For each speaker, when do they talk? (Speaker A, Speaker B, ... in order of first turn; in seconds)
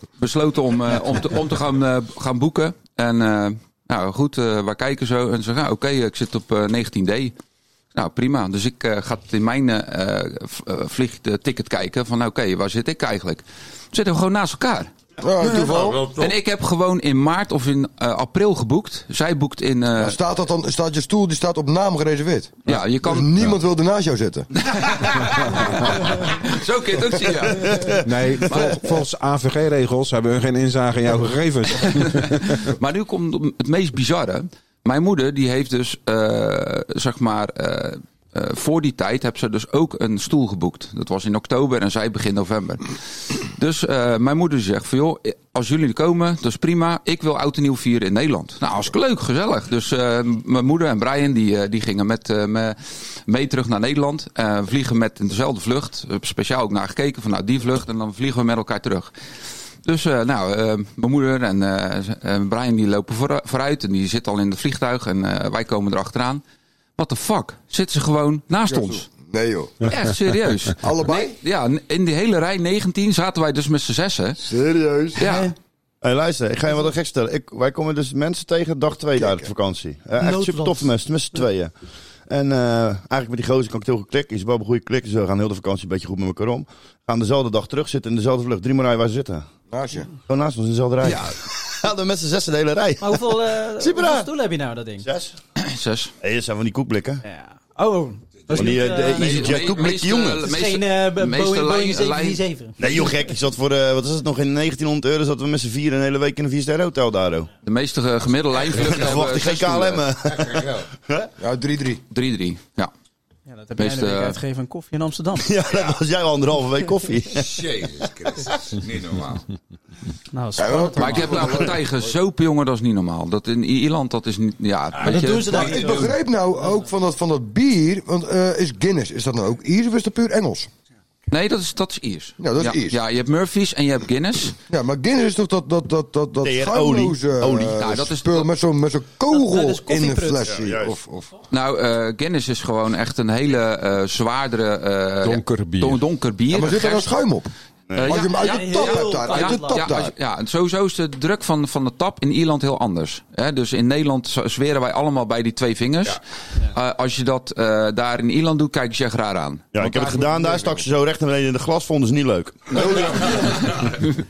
Speaker A: 0.2-7.3, 7.9-14.9, 16.1-20.2, 22.7-23.3, 24.6-27.9, 28.5-28.8, 31.8-59.1, 59.8-66.4, 67.0-69.0, 69.9-74.4, 75.1-75.5, 95.6-96.1, 99.1-102.4, 107.6-110.0, 112.1-112.9, 113.8-114.4, 121.0-125.9, 131.3-134.6, 137.7-138.5, 141.5-147.1, 147.9-156.2, 156.7-160.0, 162.7-164.1
Speaker B: 15.2-16.0, 20.0-24.5, 68.7-69.8, 70.8-71.3, 74.4-75.2, 79.2-79.5, 89.7-90.1, 111.4-112.0, 120.6-121.8, 125.5-130.7, 132.4-133.0, 134.7-141.3, 146.5-147.5, 148.1-150.1
Speaker C: 15.4-16.4, 108.6-109.3, 110.2-110.9, 117.3-119.4, 125.0-126.1
Speaker D: 27.7-28.0, 76.0-81.7, 82.3-89.5, 90.3-94.3, 95.0-95.3, 96.2-97.2, 98.5-100.4, 102.8-107.5, 108.7-111.3, 115.4-117.6, 136.4-137.8, 140.4-140.9, 147.9-148.2, 159.7-162.8
Speaker E: 28.0-32.6, 145.2-146.0
Speaker F: 75.2-75.5, 80.2-80.9, 93.0-95.0, 97.2-99.4, 100.4-102.9, 113.5-115.5, 120.3-121.6, 125.0-126.1, 139.3-140.5, 148.3-149.8